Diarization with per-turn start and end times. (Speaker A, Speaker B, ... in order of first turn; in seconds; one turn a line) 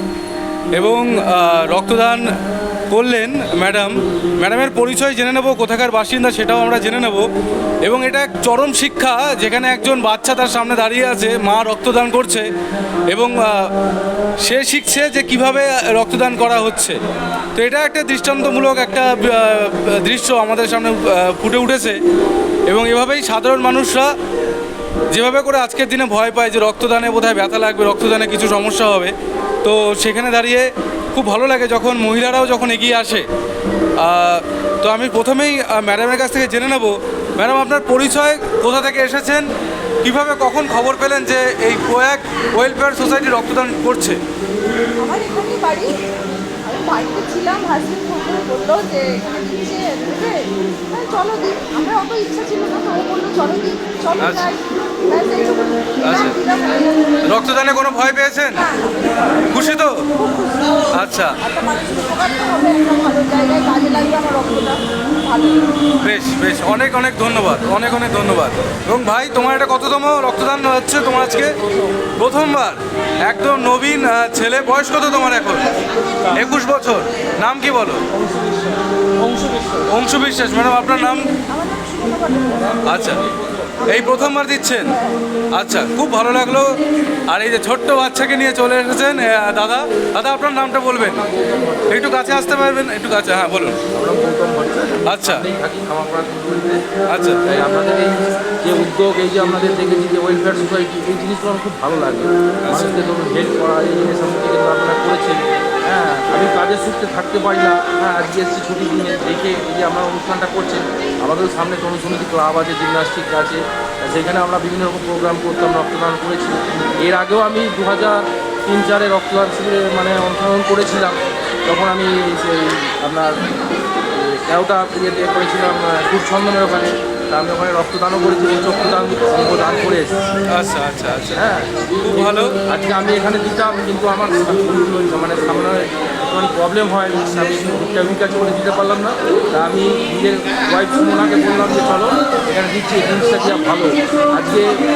Speaker A: 0.8-2.2
Speaker A: 2.9-7.3
Speaker A: 7.8-12.5
Speaker A: 13.1-13.7
Speaker A: 14.4-17.0
Speaker A: 17.6-22.0
Speaker A: 22.7-24.1
Speaker A: 25.1-33.2
Speaker A: 34.0-39.5
Speaker A: 40.0-44.2
Speaker B: 45.0-57.2
Speaker A: 54.2-54.5
Speaker A: 56.0-56.4
Speaker A: 57.3-58.7
Speaker B: 58.6-65.8
Speaker A: 59.5-60.0
Speaker A: 60.9-61.4
Speaker A: 66.0-71.5
Speaker A: 72.2-75.7
Speaker A: 76.3-78.0
Speaker C: 78.3-79.8
Speaker A: 79.9-81.3
Speaker B: 81.5-83.2
Speaker A: 82.9-83.2
Speaker A: 83.8-85.0
Speaker B: 83.8-85.2
Speaker A: 85.5-86.7
Speaker A: 87.3-91.2
Speaker C: 91.0-92.0
Speaker A: 91.9-93.8
Speaker C: 93.9-96.8
Speaker A: 95.1-95.5
Speaker A: 97.1-97.4
Speaker C: 97.4-123.4
Speaker A: 102.6-103.0
Speaker C: 124.1-130.2
Speaker A: 130.5-131.5
Speaker C: 131.3-144.7
Speaker A: 132.0-132.6